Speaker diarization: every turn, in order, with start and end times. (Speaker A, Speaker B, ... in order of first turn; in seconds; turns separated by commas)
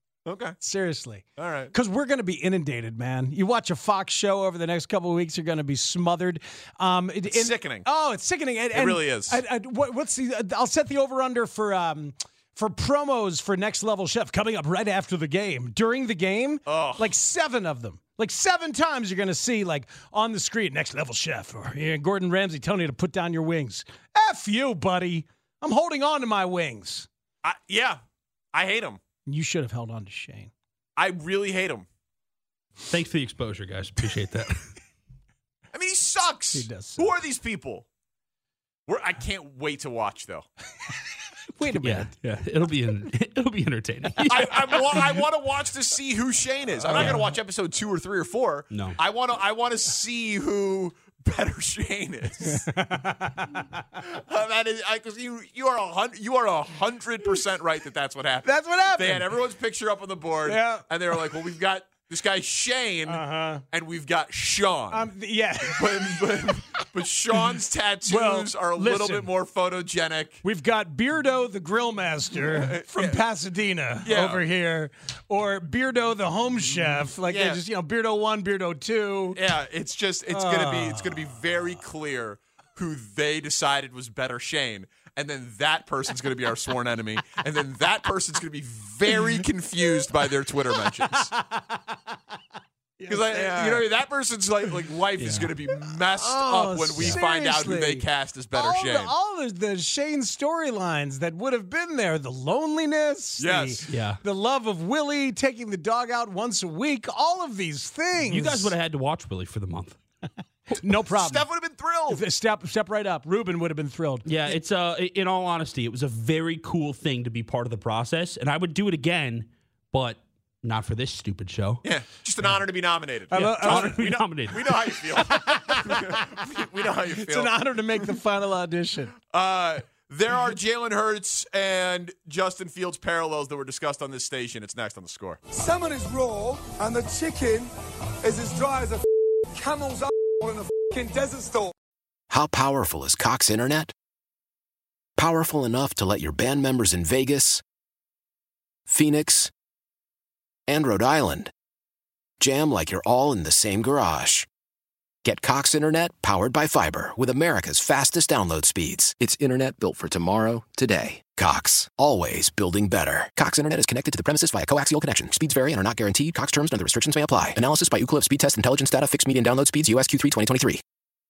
Speaker A: 0.2-0.6, Speaker B: 0.6-27.1, Speaker A: 1.4-1.7, Speaker A: 7.2-7.9, Speaker A: 8.8-9.4, Speaker A: 16.7-17.1, Speaker A: 27.4-28.0, Speaker A: 28.5-29.0, Speaker B: 29.2-30.5, Speaker A: 31.0-31.9, Speaker C: 32.9-34.6, Speaker A: 35.7-37.9, Speaker B: 36.5-37.1, Speaker A: 38.9-40.5, Speaker B: 41.5-42.1, Speaker C: 41.8-45.2, Speaker A: 44.3-52.6, Speaker C: 48.7-49.0, Speaker B: 52.5-53.6, Speaker A: 54.0-65.1, Speaker B: 58.4-59.5, Speaker B: 60.5-61.4, Speaker B: 63.1-63.6, Speaker B: 64.9-66.8, Speaker A: 65.6-70.4, Speaker B: 68.1-69.3, Speaker B: 70.4-79.5, Speaker A: 72.3-73.2, Speaker A: 74.0-74.5, Speaker A: 76.6-77.6, Speaker A: 79.3-91.3, Speaker B: 80.3-81.5, Speaker B: 89.1-90.2, Speaker B: 90.7-92.2, Speaker B: 93.0-93.9, Speaker A: 93.1-99.1, Speaker C: 95.2-95.5, Speaker B: 96.1-108.7, Speaker A: 103.4-103.8, Speaker C: 103.9-104.2, Speaker C: 108.2-110.0, Speaker B: 110.8-111.5, Speaker A: 111.1-112.2, Speaker B: 112.1-114.5, Speaker C: 114.3-121.8, Speaker A: 121.8-128.1, Speaker B: 123.3-123.9, Speaker C: 123.3-124.7, Speaker B: 125.1-126.3, Speaker B: 127.1-129.1, Speaker A: 129.2-135.4, Speaker D: 135.5-141.7, Speaker E: 142.3-143.9, Speaker E: 145.2-147.6, Speaker E: 148.9-149.5, Speaker E: 150.7-151.5, Speaker E: 152.4-154.5, Speaker E: 155.2-170.8